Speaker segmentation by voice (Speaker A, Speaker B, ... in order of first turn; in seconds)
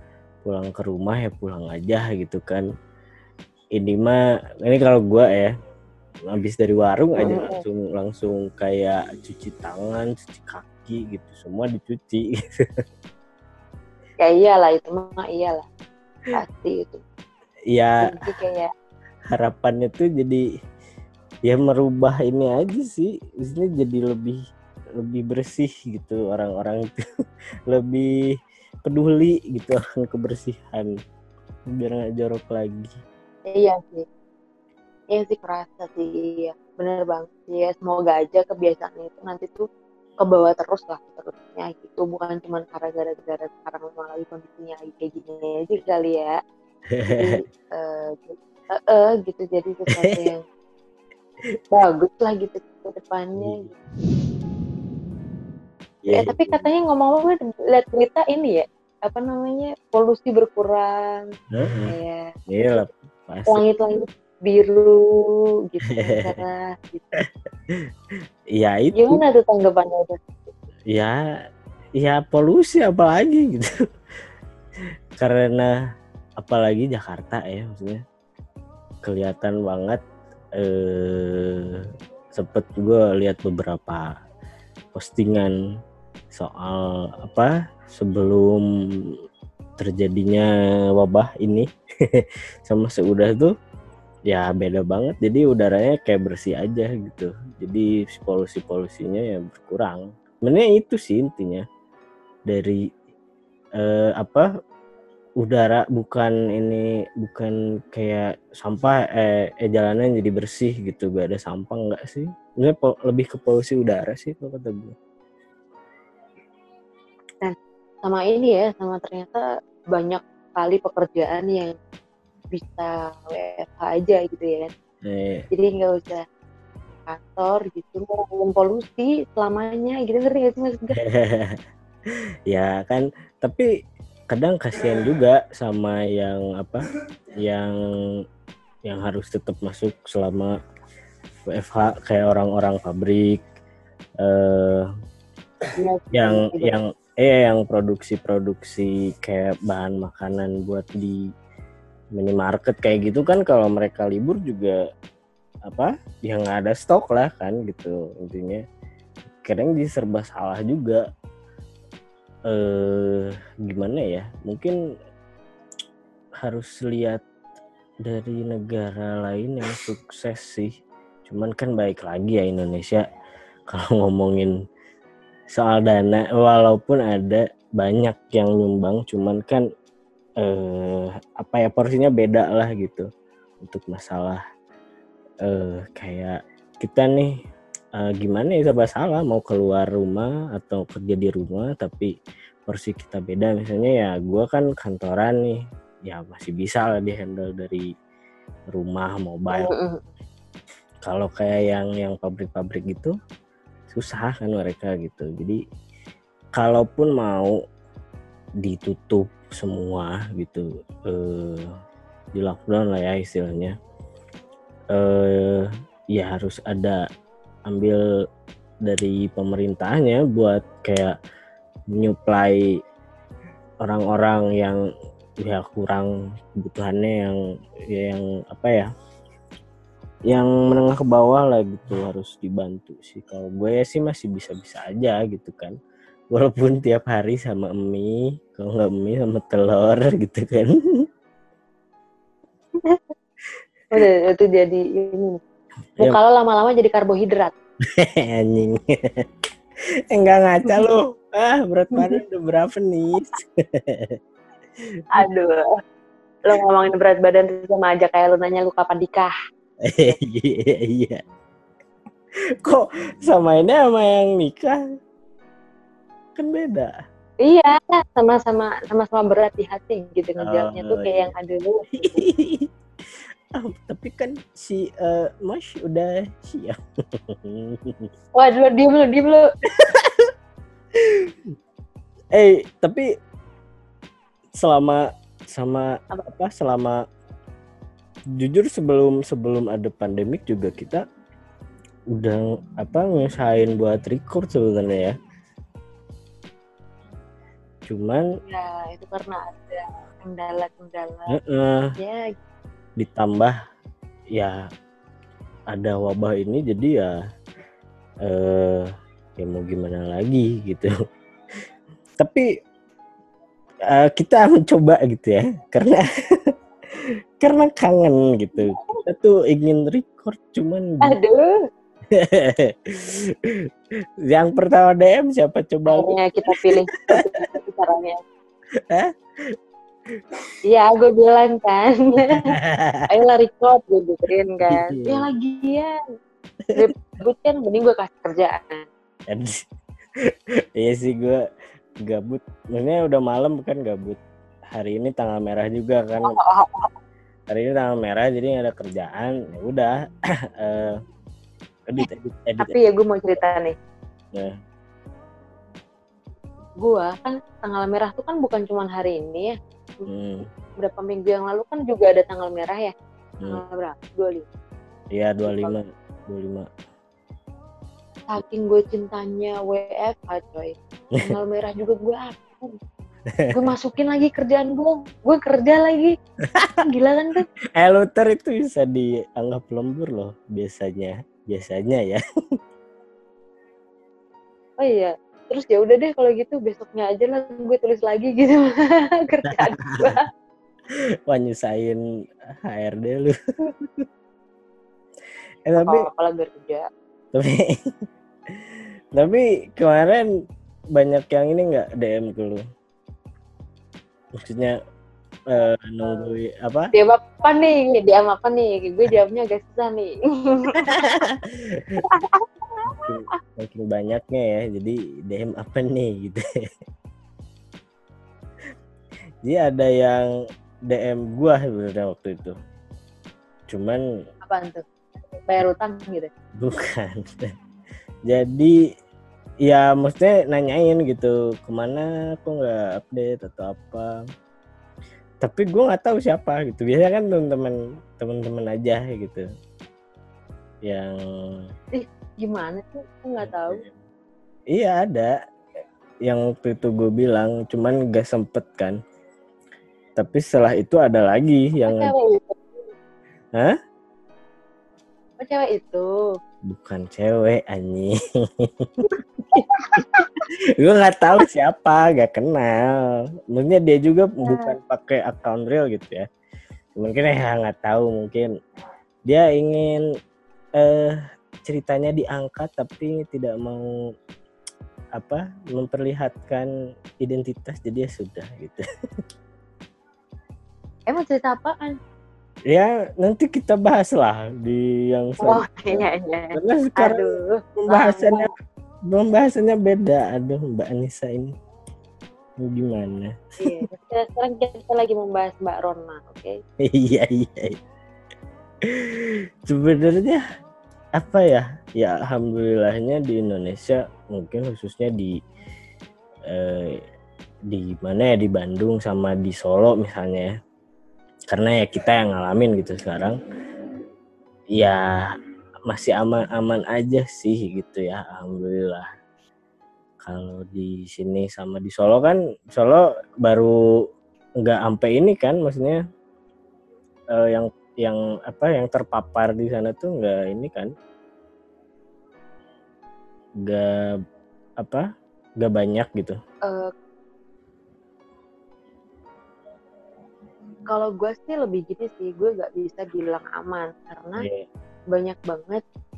Speaker A: 0.5-2.7, 3.8-5.5, 6.3-12.4, 17.7-18.0, 19.3-20.4, 21.5-24.4, 25.0-27.0, 27.7-28.1, 28.9-30.9, 31.8-33.0, 46.9-47.4, 50.0-50.3, 53.4-53.7, 56.0-56.7, 61.5-61.9, 62.5-63.6, 65.9-66.4, 68.6-69.2, 70.9-71.2, 72.0-73.7, 75.2-75.7, 76.4-78.0, 79.1-80.0, 80.6-81.8, 82.4-84.1, 85.0-85.5, 86.3-88.6, 89.8-93.5, 94.3-101.7, 102.5-102.8, 103.8-104.5, 105.4-115.0, 125.0-125.5, 131.0-131.6, 132.5-133.7, 134.3-136.8, 137.4-137.8, 138.9-140.5, 141.5-143.4, 144.2-144.9, 146.1-151.2, 152.2-154.8, 155.7-158.6, 159.4-161.0, 162.5-164.8, 166.4-167.2, 168.1-170.7, 171.3-173.0, 173.7-174.5, 175.6-179.6, 180.4-183.1, 183.6-184.4, 185.5-187.3, 188.0-192.1, 192.7-197.9, 198.7-199.7, 201.1-203.1, 203.9-205.6, 206.6-207.5, 208.6-211.7, 212.4-213.7, 214.9-217.0, 217.7-218.0, 218.9-221.2, 221.9-222.7, 223.8-224.8, 225.4-227.4, 227.9-228.9, 230.3-235.8, 236.3-240.7, 247.9-249.2, 250.1-254.2, 259.8-261.2, 262.6-264.8, 266.4-266.9, 270.4-271.3, 271.9-272.7, 273.6-276.8, 277.3-278.1, 279.8-280.3, 282.4-283.1, 284.6-285.0, 285.6-287.0, 288.4-291.0, 292.1-295.2, 297.9-298.2, 301.3-301.9, 303.0-303.6, 305.7-307.1, 308.3-310.9, 312.2-312.5, 313.9-316.0, 317.4-321.1, 322.1-323.5, 324.3-327.3, 332.2-333.1, 334.6-335.3, 340.8-341.4, 342.1-344.2, 344.8-346.4, 347.5-350.0, 350.6-351.0, 351.9-352.8, 360.1-360.5, 365.1-366.7, 373.4-373.7, 376.6-376.8, 377.8-382.2, 389.4-390.2, 391.3-392.0, 392.6-394.1, 395.7-396.1, 397.3-397.8, 399.2-400.3, 401.0-402.6, 404.5-404.8, 405.5-406.9, 410.9-412.0, 412.9-416.4, 419.4-420.3, 420.9-422.6, 423.7-424.0, 426.6-427.4, 428.3-428.7, 429.6-434.1, 435.4-439.4, 440.9-441.1, 443.4-444.0, 444.7-445.3, 446.3-449.0, 450.2-452.1, 456.7-459.6, 460.8-463.0, 463.5-466.3, 466.9-468.5, 469.3-470.0, 470.8-473.9, 475.2-476.7, 477.2-478.8, 482.7-486.0, 486.6-488.5, 489.1-491.5, 492.6-493.8, 496.9-497.8, 498.9-500.4, 501.2-505.4, 506.5-507.0, 507.7-510.5, 511.5-513.4, 515.9-519.1, 520.2-523.7, 524.6-526.0, 527.4-530.9, 533.7-534.1, 534.8-535.1, 535.6-536.4
Speaker B: 7.2-7.6, 14.2-15.7, 16.3-17.0, 18.0-18.7, 33.5-34.0, 35.1-39.7, 40.2-46.4, 47.2-50.4, 51.7-53.8, 56.1-62.8, 63.5-67.1, 68.9-70.5, 117.4-119.4, 119.9-121.8, 122.5-124.7, 125.5-126.2, 127.1-131.0, 145.8-146.8, 199.5-200.1, 242.8-243.1, 243.9-245.4, 246.0-247.5, 255.2-255.7, 256.5-259.4, 267.4-271.9, 278.4-279.5, 298.4-301.4, 302.0-302.4, 321.0-321.6, 325.9-328.2, 330.7-332.5, 333.1-335.9, 336.8-338.8, 346.2-346.9, 352.6-353.8, 356.8-360.1, 360.8-364.4, 365.5-365.8, 368.3-372.8, 373.5-376.1, 376.8-377.5, 384.8-390.2, 395.8-396.9, 406.0-406.3, 406.9-411.0, 412.1-413.0, 424.4-426.3, 441.9-443.8, 451.9-452.6, 455.4-456.1, 459.7-460.4, 464.4-464.7, 481.1-481.9, 485.4-488.5, 493.6-496.6, 540.9-544.4, 545.1-545.8